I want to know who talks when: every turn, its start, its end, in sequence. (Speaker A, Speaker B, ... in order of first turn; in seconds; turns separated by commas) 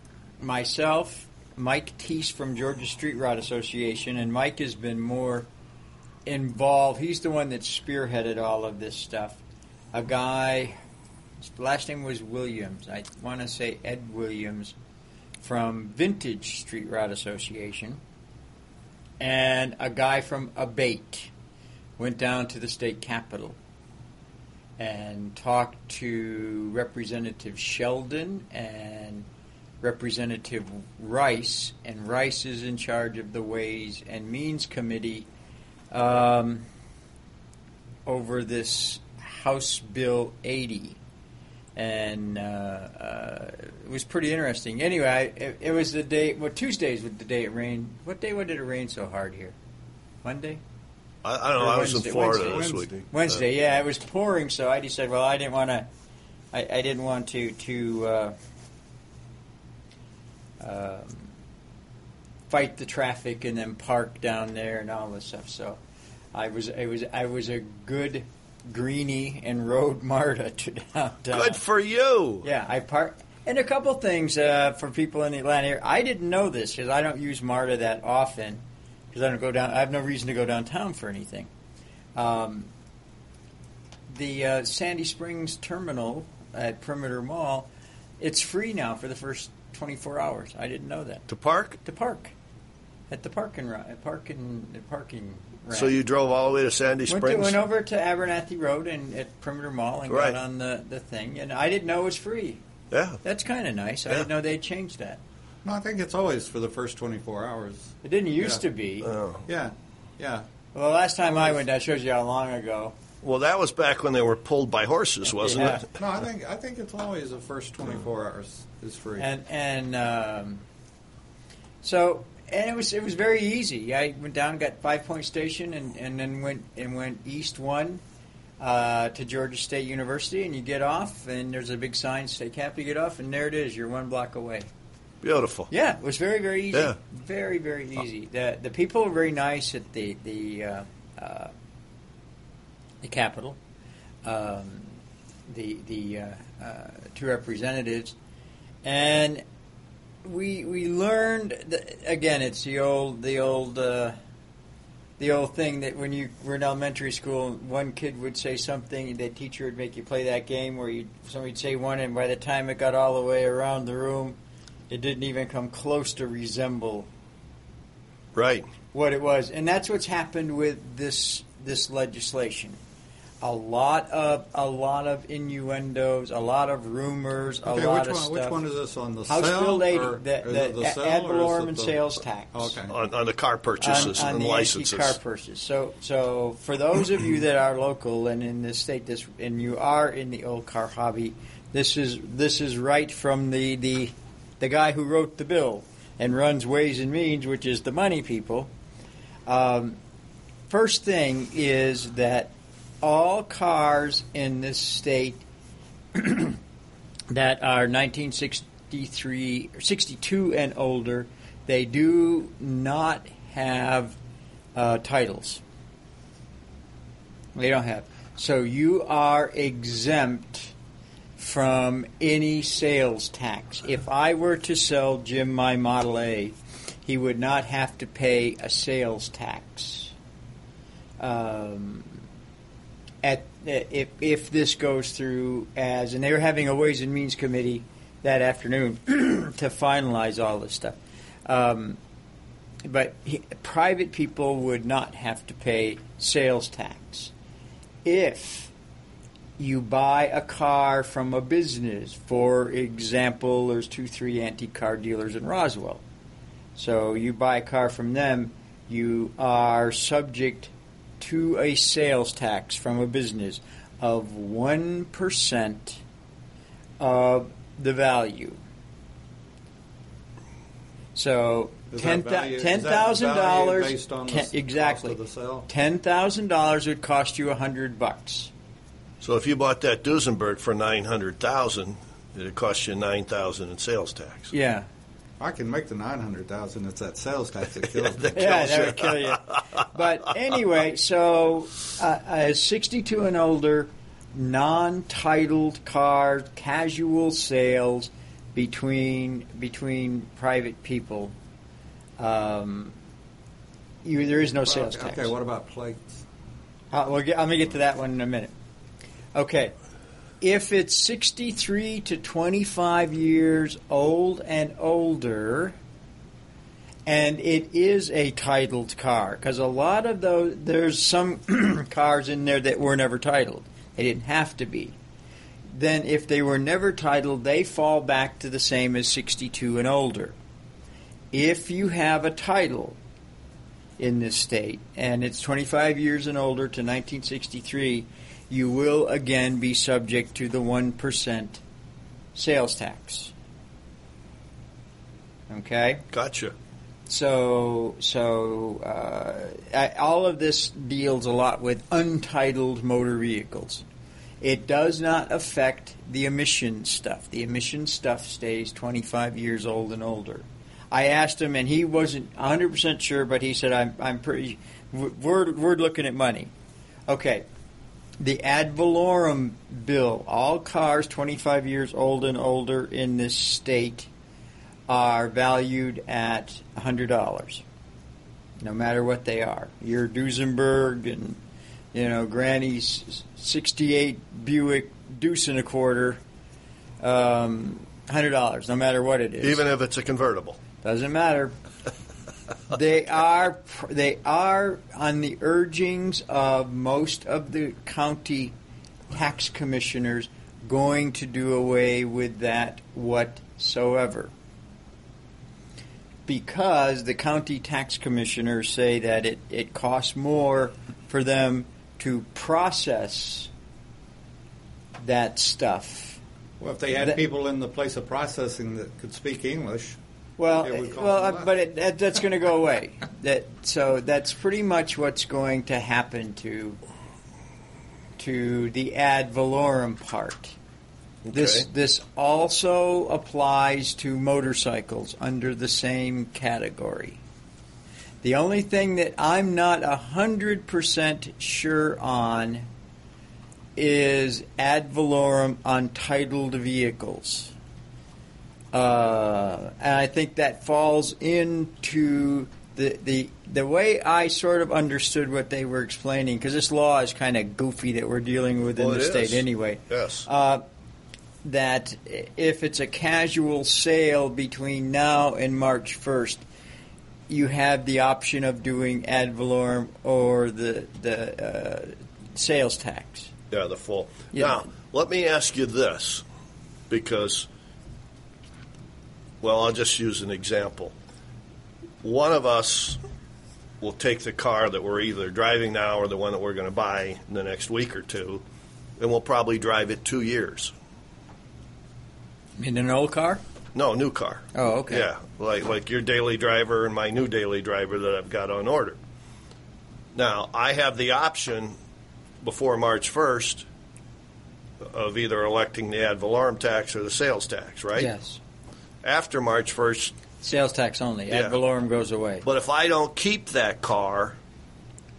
Speaker A: 0.4-5.5, Speaker A: 6.2-9.4, Speaker A: 9.9-10.8, Speaker A: 11.4-14.7, Speaker A: 15.4-18.0, Speaker A: 19.2-21.3, Speaker A: 22.0-23.6, Speaker A: 24.8-29.2, Speaker A: 29.8-35.3, Speaker A: 35.9-36.6, Speaker A: 38.0-41.0, Speaker A: 41.8-49.5, Speaker A: 50.2-50.6, Speaker B: 51.2-52.9, Speaker A: 51.6-55.9, Speaker C: 52.1-53.0, Speaker A: 56.5-58.3, Speaker A: 60.6-61.3, Speaker A: 62.5-65.8, Speaker A: 66.3-71.6, Speaker B: 71.3-72.5, Speaker A: 72.4-81.5, Speaker A: 82.2-82.7, Speaker A: 84.1-87.7, Speaker A: 88.2-91.2, Speaker B: 91.3-91.8, Speaker A: 91.8-92.3, Speaker A: 93.1-96.0, Speaker B: 95.7-97.6, Speaker A: 97.1-102.6, Speaker B: 100.1-100.4, Speaker B: 102.9-103.2, Speaker A: 103.2-105.2, Speaker C: 105.6-108.6, Speaker A: 108.0-109.1, Speaker B: 109.0-109.4, Speaker C: 109.5-110.5, Speaker A: 110.7-112.9, Speaker C: 111.3-111.6, Speaker B: 113.2-115.8, Speaker A: 115.4-115.8, Speaker C: 115.9-119.3, Speaker A: 119.2-120.6, Speaker A: 121.8-128.0, Speaker A: 128.6-134.7, Speaker B: 135.2-135.7, Speaker A: 135.7-141.5, Speaker A: 143.0-143.6, Speaker A: 144.2-144.9, Speaker A: 145.5-148.1, Speaker A: 148.8-149.4, Speaker A: 150.2-154.2, Speaker A: 155.2-164.4, Speaker A: 164.9-167.1, Speaker B: 168.3-168.7, Speaker A: 168.9-172.8, Speaker A: 173.4-178.6, Speaker C: 177.6-182.0, Speaker A: 179.3-182.8, Speaker C: 182.5-182.9, Speaker B: 182.9-185.2, Speaker A: 183.8-198.7, Speaker A: 199.4-200.0, Speaker A: 200.7-205.4, Speaker A: 206.1-206.6, Speaker A: 207.3-214.2, Speaker A: 214.7-215.6, Speaker A: 217.5-220.7, Speaker A: 221.4-230.1, Speaker A: 231.2-232.2, Speaker A: 233.2-242.0, Speaker A: 242.8-247.3, Speaker A: 248.0-248.7, Speaker A: 249.6-256.0, Speaker A: 256.8-266.0, Speaker A: 267.0-268.6, Speaker A: 271.1-278.5, Speaker C: 271.9-275.7, Speaker B: 279.2-284.5, Speaker A: 284.5-284.9, Speaker C: 285.4-288.5, Speaker B: 287.9-289.6, Speaker A: 288.3-301.3, Speaker A: 302.2-302.9, Speaker A: 304.0-305.3, Speaker C: 304.6-306.2, Speaker A: 306.9-308.5, Speaker A: 309.3-309.7, Speaker A: 310.4-315.7, Speaker A: 317.1-324.9, Speaker A: 325.7-330.3, Speaker A: 331.3-333.0, Speaker A: 334.0-341.6, Speaker A: 342.3-343.3, Speaker A: 345.5-346.1, Speaker B: 346.1-346.5, Speaker A: 347.1-353.8, Speaker A: 354.4-366.5, Speaker A: 367.1-367.4, Speaker A: 368.2-374.1, Speaker A: 374.9-377.6, Speaker A: 378.6-381.4, Speaker A: 381.9-386.2, Speaker A: 387.0-389.6, Speaker B: 389.4-390.6, Speaker A: 390.8-391.5, Speaker A: 392.7-398.5, Speaker A: 399.1-404.3, Speaker A: 406.3-413.5, Speaker A: 415.0-416.2, Speaker C: 416.6-420.0, Speaker A: 420.4-426.8, Speaker C: 420.6-421.5, Speaker A: 428.2-430.5, Speaker B: 431.2-431.6, Speaker A: 431.3-437.2, Speaker A: 438.2-442.7, Speaker A: 443.8-447.5, Speaker A: 448.7-460.6, Speaker B: 458.8-460.2, Speaker A: 461.4-466.4, Speaker A: 467.3-473.3, Speaker B: 473.5-476.2, Speaker A: 474.3-474.6, Speaker B: 476.9-477.5, Speaker B: 479.4-480.9, Speaker B: 482.0-483.0, Speaker B: 483.8-488.4, Speaker B: 489.0-490.7, Speaker A: 492.6-493.4, Speaker B: 493.7-499.0, Speaker A: 494.5-495.1, Speaker B: 500.1-501.8, Speaker B: 502.4-503.6, Speaker B: 504.8-508.1, Speaker A: 508.0-508.4, Speaker B: 509.0-510.1, Speaker A: 510.4-512.4, Speaker B: 511.3-511.6, Speaker B: 512.4-514.4